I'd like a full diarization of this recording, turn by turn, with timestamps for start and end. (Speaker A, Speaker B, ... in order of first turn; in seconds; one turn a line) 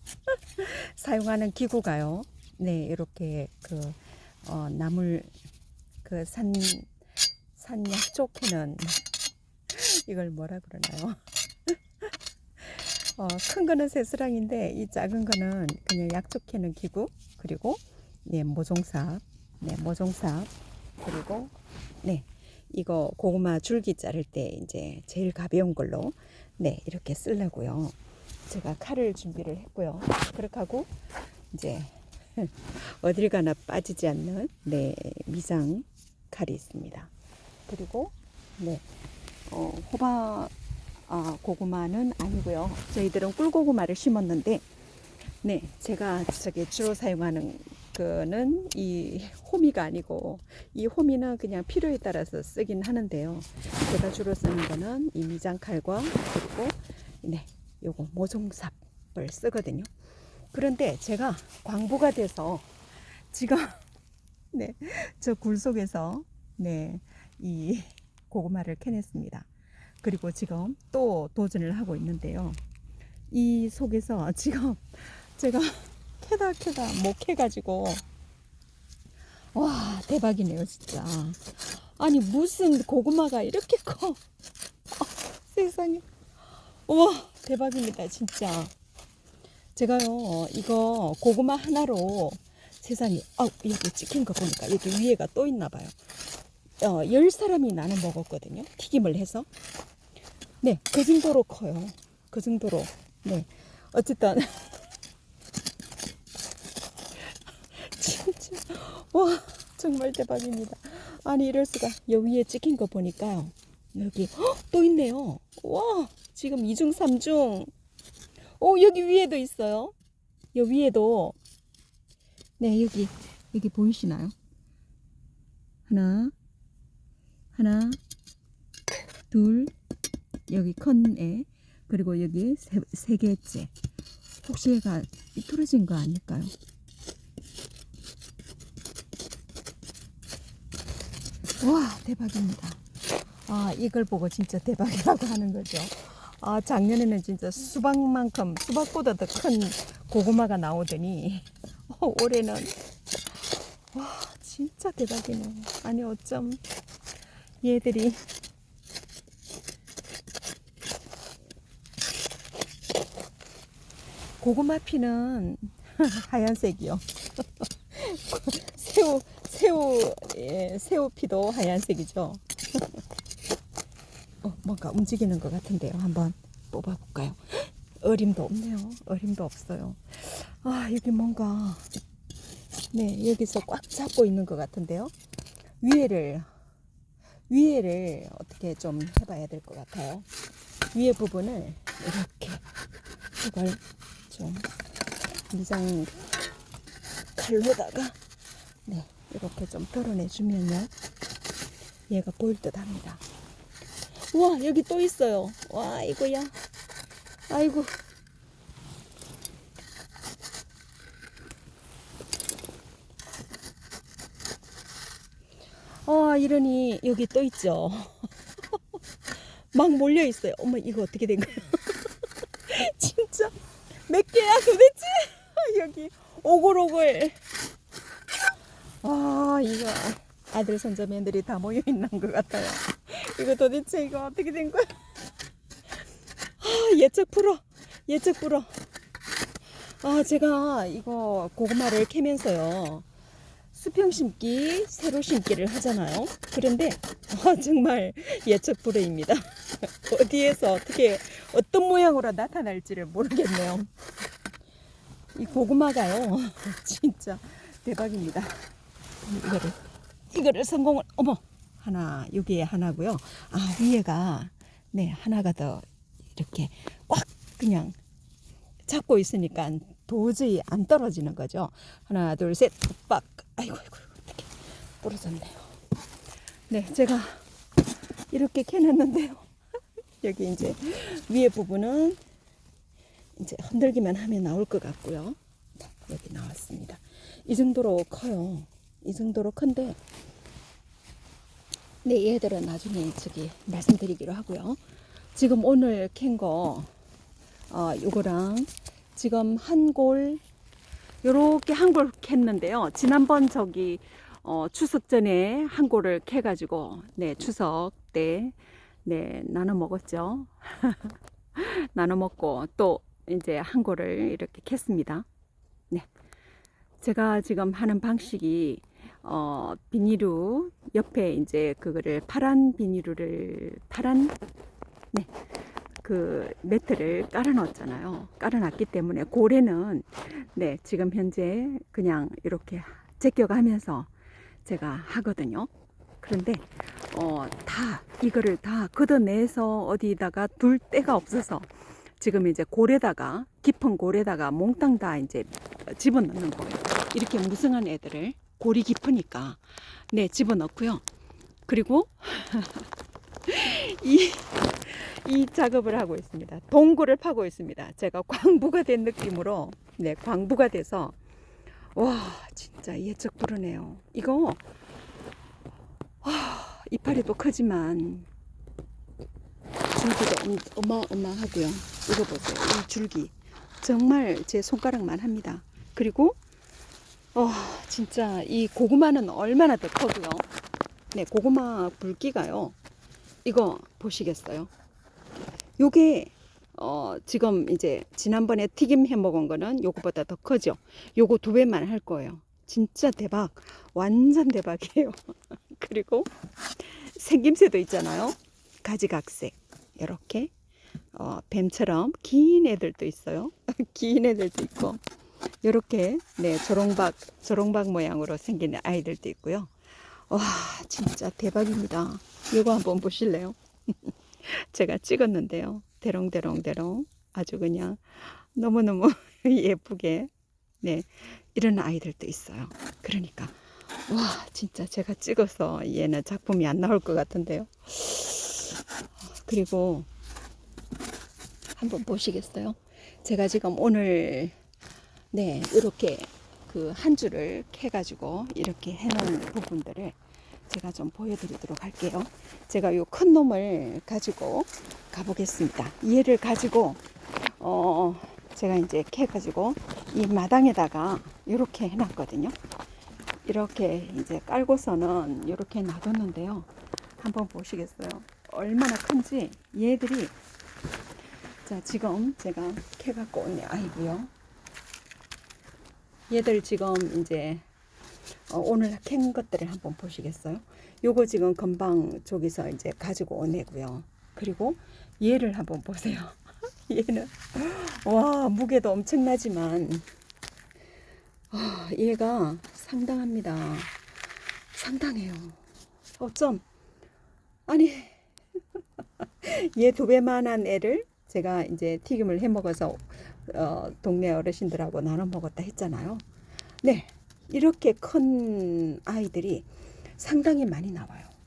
Speaker A: 0.3-5.3
Speaker A: 6.0-6.9
Speaker A: 7.5-9.0
Speaker A: 9.7-21.5
Speaker A: 22.0-27.9
Speaker A: 28.5-30.9
Speaker A: 31.5-37.1
Speaker A: 37.7-38.9
Speaker A: 39.5-40.5
Speaker A: 41.1-44.6
Speaker A: 45.4-59.9
Speaker A: 60.5-62.7
Speaker A: 63.3-63.8
Speaker A: 64.5-69.5
Speaker A: 70.0-72.6
Speaker A: 73.3-78.0
Speaker A: 79.5-81.4
Speaker A: 82.0-84.2
Speaker A: 85.0-86.0
Speaker A: 86.8-88.7
Speaker A: 89.7-95.9
Speaker A: 96.8-99.5
Speaker A: 100.6-104.7
Speaker A: 107.2-117.7
Speaker A: 118.6-119.9
Speaker A: 120.5-121.3
Speaker A: 122.6-124.3
Speaker A: 125.9-126.3
Speaker A: 127.5-128.0
Speaker A: 129.3-129.7
Speaker A: 130.5-133.7
Speaker A: 134.4-136.5
Speaker A: 141.6-142.8
Speaker A: 143.4-152.7
Speaker A: 153.9-156.6
Speaker A: 157.6-158.2
Speaker A: 164.4-173.0
Speaker A: 174.4-181.9
Speaker A: 182.9-185.1
Speaker A: 185.8-186.4
Speaker A: 187.5-190.2
Speaker A: 190.9-192.6
Speaker A: 193.4-194.7
Speaker A: 195.5-196.2
Speaker A: 197.3-198.2
Speaker A: 198.8-200.9
Speaker A: 202.1-203.2
Speaker A: 204.3-206.5
Speaker A: 207.5-208.0
Speaker A: 216.0-218.8
Speaker A: 219.7-222.0
Speaker A: 222.7-227.4
Speaker A: 229.0-234.9
Speaker A: 236.6-238.7
Speaker A: 240.0-243.1
Speaker A: 243.7-253.9
Speaker A: 255.3-258.7
Speaker A: 259.2-259.8
Speaker A: 260.3-267.9
Speaker A: 268.9-275.7
Speaker A: 276.7-277.4
Speaker A: 278.3-279.5
Speaker A: 280.2-282.2
Speaker A: 283.4-290.0
Speaker A: 292.0-294.8
Speaker A: 295.3-296.9
Speaker A: 297.7-300.4
Speaker A: 301.2-315.3
Speaker A: 317.0-324.3
Speaker A: 326.0-334.1
Speaker A: 334.6-335.7
Speaker A: 336.2-351.0
Speaker A: 351.7-352.9
Speaker A: 353.5-361.2
Speaker A: 361.9-364.6
Speaker A: 366.2-368.3
Speaker A: 369.9-376.4
Speaker A: 377.3-380.4
Speaker A: 381.1-382.7
Speaker A: 383.4-384.7
Speaker A: 385.8-396.3
Speaker A: 396.8-400.5
Speaker A: 401.1-405.0
Speaker A: 405.6-420.3
Speaker A: 420.8-423.6
Speaker A: 424.1-430.1
Speaker A: 431.8-434.6
Speaker A: 435.3-440.2
Speaker A: 440.7-452.6
Speaker A: 453.4-460.3
Speaker A: 461.6-464.3
Speaker A: 466.3-467.7
Speaker A: 468.5-480.0
Speaker A: 481.5-483.9
Speaker A: 484.7-485.6
Speaker A: 486.2-486.6
Speaker A: 487.7-488.2
Speaker A: 489.2-496.2
Speaker A: 496.8-501.3